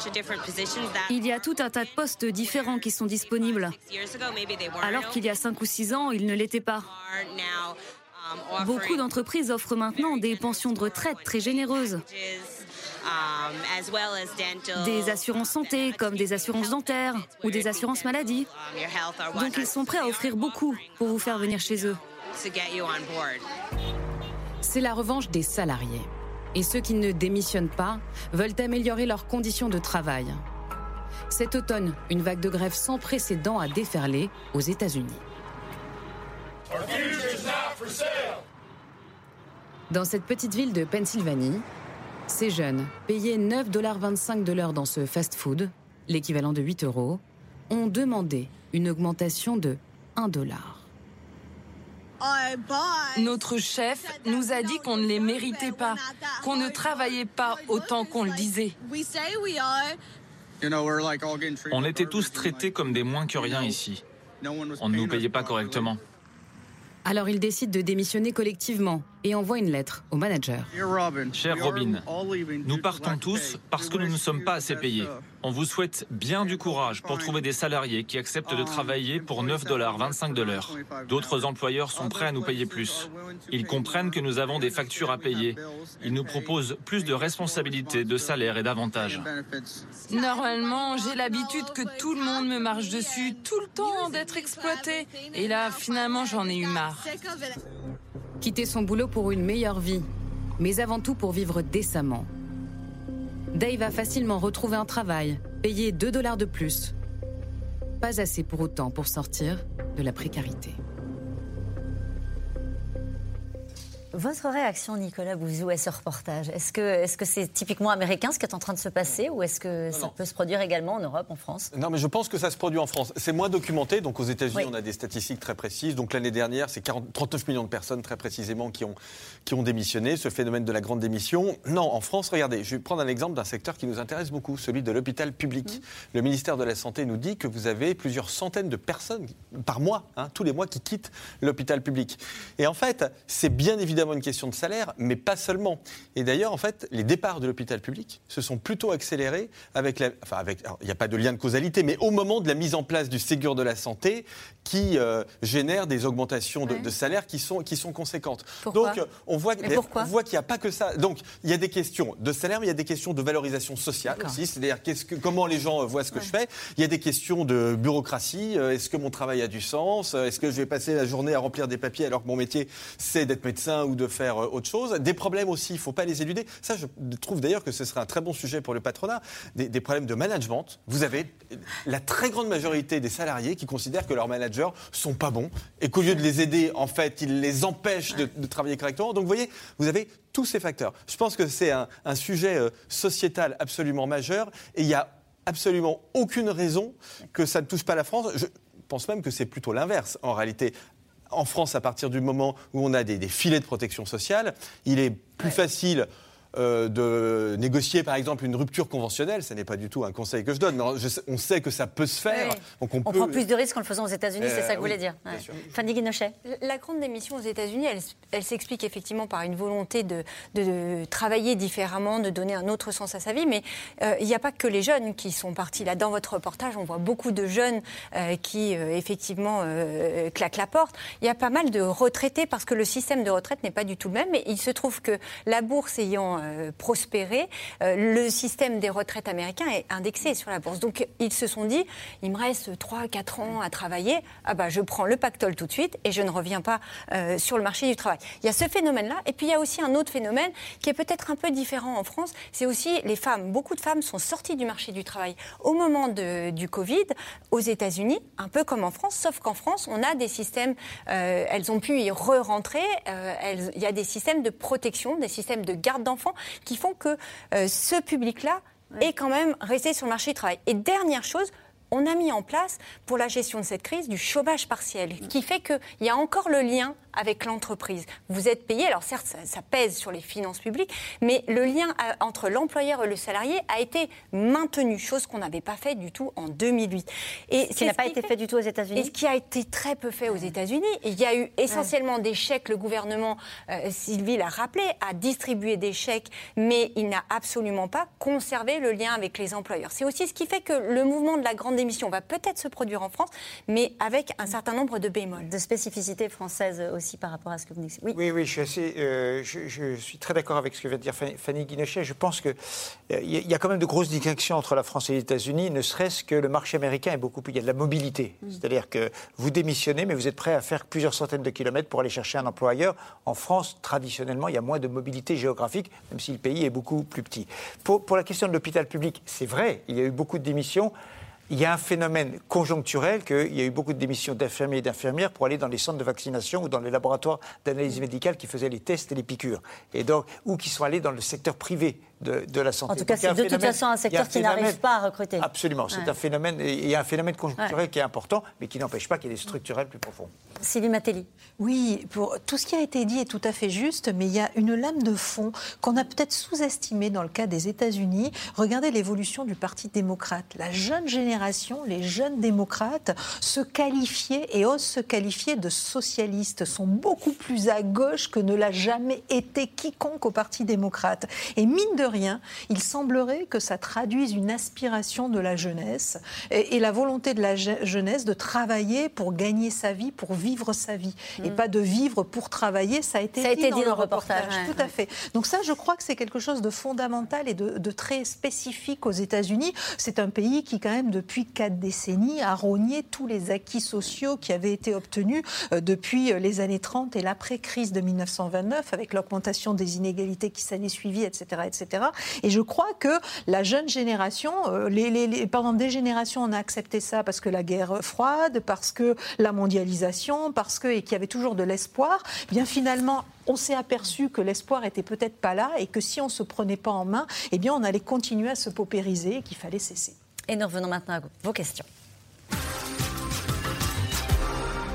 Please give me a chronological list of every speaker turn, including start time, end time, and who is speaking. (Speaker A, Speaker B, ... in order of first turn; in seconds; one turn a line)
Speaker A: 0.3-3.8
Speaker A: 4.8-6.9
Speaker A: 8.5-12.0
Speaker A: 14.6-18.5
Speaker A: 19.2-22.0
Speaker B: 24.6-30.4
Speaker B: 31.3-35.2
Speaker B: 39.9-41.6
Speaker B: 42.3-50.9
Speaker C: 52.2-60.0
Speaker A: 56.7-57.7
Speaker C: 60.6-63.8
Speaker D: 61.7-64.0
Speaker C: 64.4-66.0
Speaker D: 64.8-66.0
Speaker B: 67.0-70.7
Speaker C: 70.7-75.3
Speaker D: 71.3-72.0
Speaker D: 72.6-89.3
Speaker C: 76.3-77.5
Speaker C: 78.4-97.6
Speaker B: 98.4-100.1
Speaker B: 100.6-102.3
Speaker B: 103.5-106.9
Speaker B: 108.0-110.8
Speaker E: 114.1-121.7
Speaker F: 121.7-200.7
Speaker E: 158.6-159.0
Speaker E: 159.6-160.1
Speaker F: 201.3-213.4
Speaker E: 212.3-216.3
Speaker F: 214.4-215.7
Speaker G: 216.4-288.3
Speaker E: 287.7-289.1
Speaker G: 288.9-305.5
Speaker E: 305.4-308.2
Speaker H: 308.1-312.6
Speaker H: 313.1-330.9
Speaker H: 331.5-344.8
Speaker E: 342.9-346.1
Speaker H: 345.4-350.3
Speaker E: 350.6-351.3
Speaker I: 351.6-420.1
Speaker E: 383.4-384.7
Speaker E: 420.5-421.9